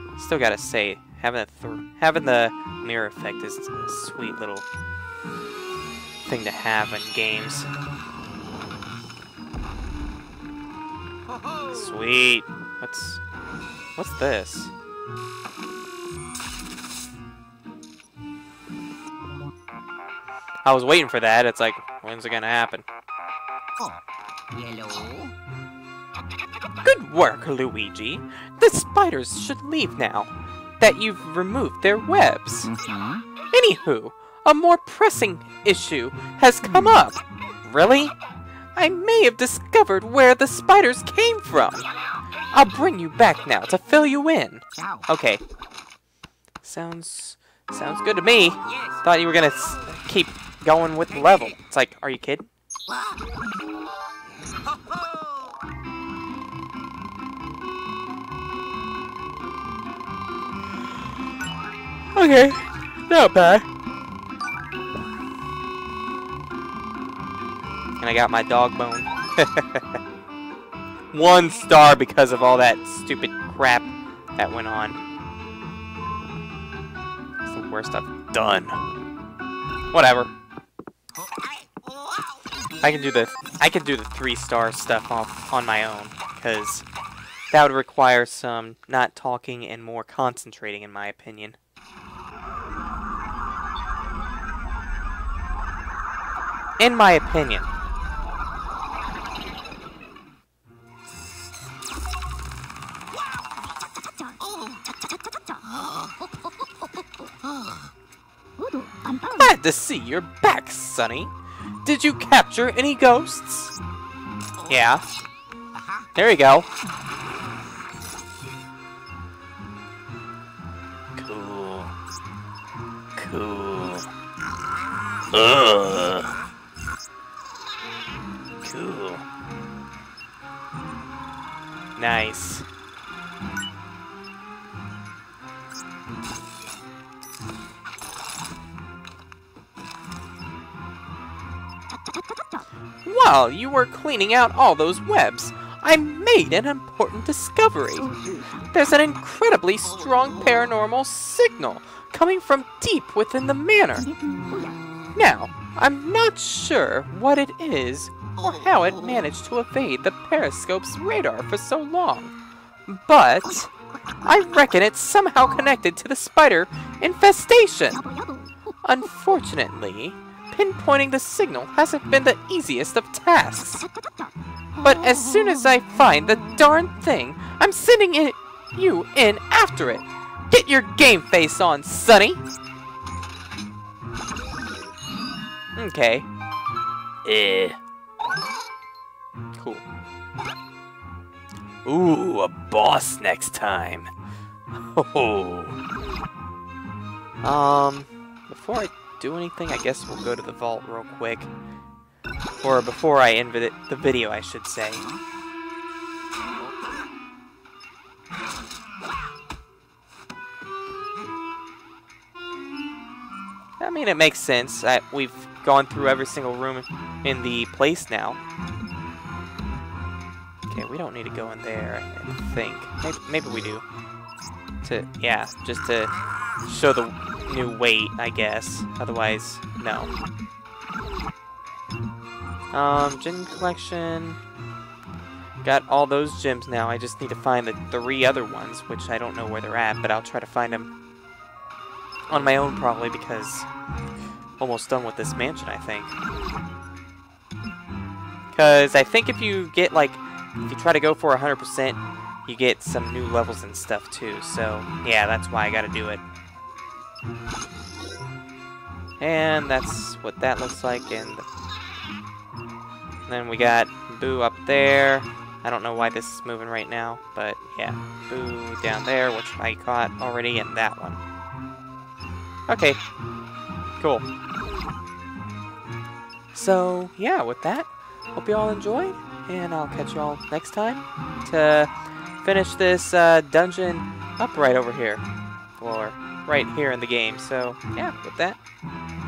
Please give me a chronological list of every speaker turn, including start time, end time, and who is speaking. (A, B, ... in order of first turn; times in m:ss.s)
0:00.2-0:04.7 A
0:06.2-0:07.7 A
0:11.3-0:12.0 B
0:11.7-0:13.2 A
0:14.0-0:14.7 A
0:20.6-0:22.8 A
0:24.5-0:25.3 B
0:26.8-0:32.7 A
0:32.7-0:33.2 B
0:33.5-0:38.2 A
0:38.8-0:41.9 A
0:42.5-0:45.4 A
0:44.7-0:45.1 B
0:46.6-0:52.5 A
0:48.7-0:49.1 B
0:49.6-0:49.9 B
0:51.1-0:51.6 B
0:52.9-0:53.5 B
0:54.6-0:55.6 B
1:02.2-1:03.7 A
1:08.0-1:10.0 A
1:11.1-1:15.0 A
1:17.4-1:18.8 A
1:19.9-1:20.3 A
1:21.2-1:23.0 B
1:22.8-1:26.8 A
1:27.5-1:31.6 A
1:36.8-1:37.7 A
1:44.2-1:47.9 B
1:48.6-1:49.5 B
1:49.3-1:51.3 A
1:51.8-1:53.8 A
1:54.6-1:54.8 B
1:54.7-1:55.0 A
1:55.7-1:56.2 B
1:56.2-1:56.7 A
2:01.2-2:01.9 A
2:03.2-2:04.1 A
2:05.3-2:06.3 A
2:08.6-2:09.2 A
2:12.0-2:12.7 A
2:23.0-2:28.1 A
2:28.0-2:28.6 B
2:28.7-2:34.1 A
2:29.8-2:30.7 B
2:34.0-2:35.2 B
2:35.2-2:42.3 A
2:38.4-2:39.2 B
2:42.9-2:43.7 A
2:44.2-2:48.0 A
2:48.0-2:48.5 B
2:48.8-2:53.9 A
2:54.8-3:02.4 A
3:05.8-3:06.3 A
3:07.2-3:07.8 A
3:09.6-3:09.8 A
3:11.8-3:14.1 A
3:14.7-3:15.8 A
3:17.4-3:21.5 A
3:22.6-3:25.0 A
3:26.6-3:27.1 B
3:33.8-3:38.4 A
3:40.7-3:43.8 A
3:44.8-3:46.1 A
3:46.6-3:50.1 A
3:52.7-3:54.4 A
3:55.6-4:00.9 A
4:02.3-4:03.7 A
4:04.6-4:06.2 A
4:08.5-4:16.2 A
4:19.2-4:21.4 A
4:23.3-4:31.2 A
4:32.7-4:33.0 A
4:34.0-4:34.3 A
4:36.5-4:41.9 A
4:42.4-4:45.2 A
4:45.8-4:48.6 A